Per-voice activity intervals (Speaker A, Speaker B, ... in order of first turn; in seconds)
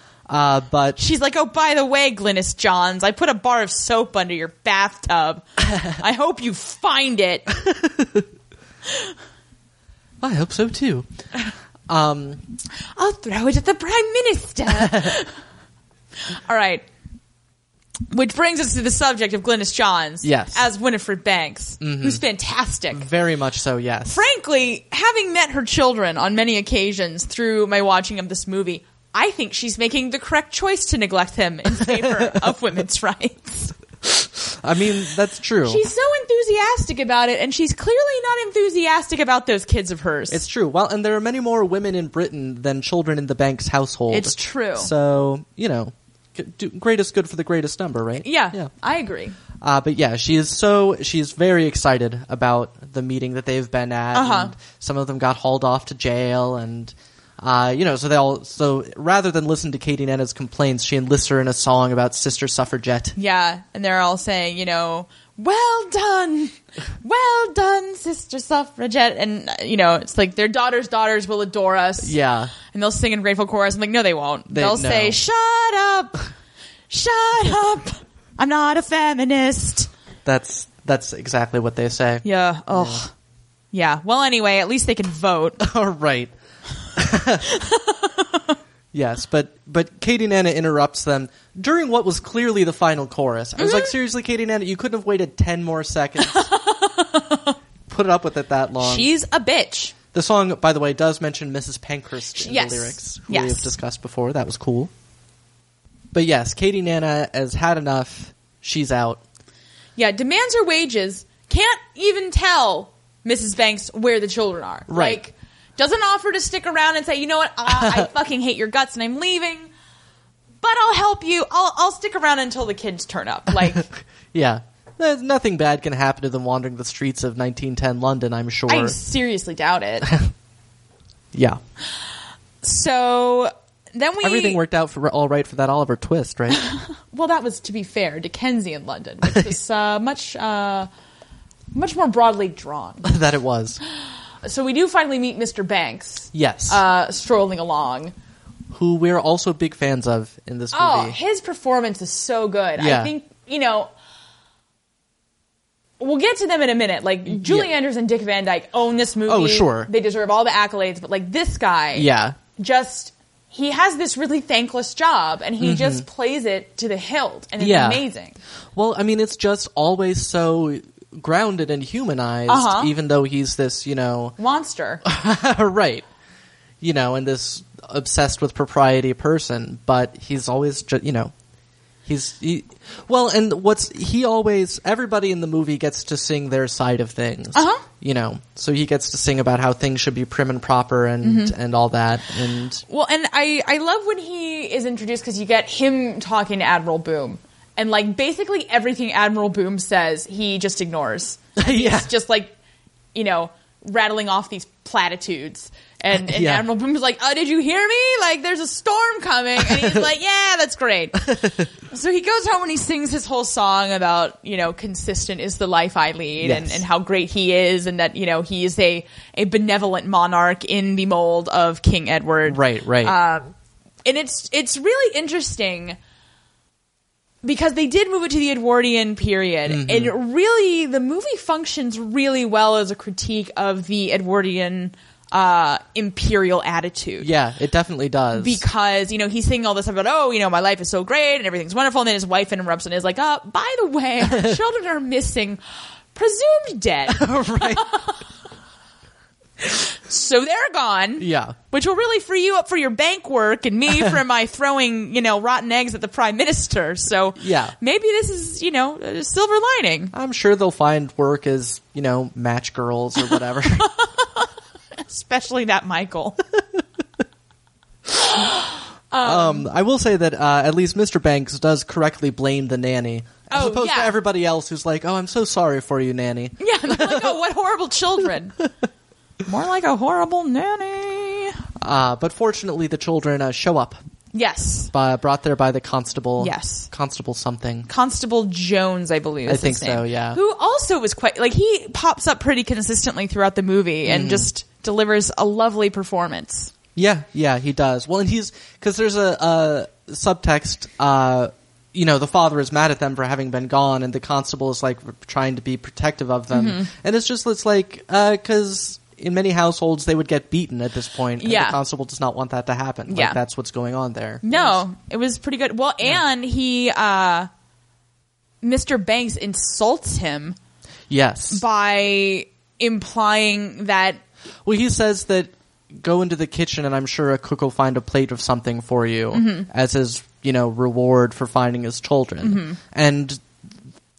Speaker A: 0.3-1.0, 7.6-8.2, 10.2-11.1, 11.9-12.4, 14.7-15.2, 20.2-20.6, 21.8-22.2, 22.9-24.2, 31.8-32.3, 34.0-35.8, 40.3-48.7, 49.6-63.1, 72.0-72.5, 74.5-75.2, 80.2-83.0, 85.6-86.3, 87.0-87.5, 88.9-96.5, 97.9-99.1, 100.1-104.9, 106.1-109.2, 114.9-115.2, 117.7-118.1, 123.7-128.9, 131.3-131.6, 134.2-136.6, 143.0-143.8, 146.3-146.8, 148.7-151.2, 152.8-153.1, 157.3-157.7, 159.3-159.9, 161.9-162.4, 165.6-166.0, 167.6-168.0, 168.7-174.3, 175.0-176.1, 176.8-181.3, 182.1-192.8, 201.6-202.1, 206.1-206.7, 209.7-210.0, 211.2-211.6, 216.4-216.8, 222.5-223.1, 229.7-230.1, 237.2-238.6, 244.3-244.6, 247.1-247.9, 251.2-251.6, 257.4-257.7, 260.1-263.9, 269.2-277.4, 281.8-284.0, 284.9-287.9, 289.5-290.4, 294.0-294.5, 296.9-314.8, 321.1-321.6, 324.6-333.4
Speaker B: 1.0-7.5, 12.9-15.3, 16.3-16.8, 18.1-23.1, 24.1-33.7, 35.6-40.4, 44.1-44.9, 48.2-49.4, 54.1-54.5, 63.1-72.1, 72.7-76.2, 76.9-79.9, 82.2-83.1, 83.7-85.6, 87.5-88.5, 93.6-93.9, 96.2-97.5, 98.8-99.9, 102.3-103.7, 110.0-119.7, 120.6-123.8, 128.7-130.1, 132.6-134.6, 136.6-140.9, 141.7-143.1, 143.9-148.1, 150.7-153.9, 156.0-168.4, 172.5-172.9, 174.4-175.0, 187.5-187.8, 191.2-191.5, 192.9-202.5, 203.1-223.5, 224.0-226.0, 227.4-237.3, 238.3-245.6, 246.1-248.2, 249.6-260.1, 263.8-264.5, 265.1-266.4, 268.2-269.7, 273.5-274.2, 276.6-278.6, 279.4-281.6, 284.3-284.9, 286.4-286.9, 287.9-296.7, 306.5-306.9, 311.4-311.8, 313.1-313.4, 314.4-317.5, 318.6-320.6, 321.5-324.2, 329.3-329.7, 332.4-332.8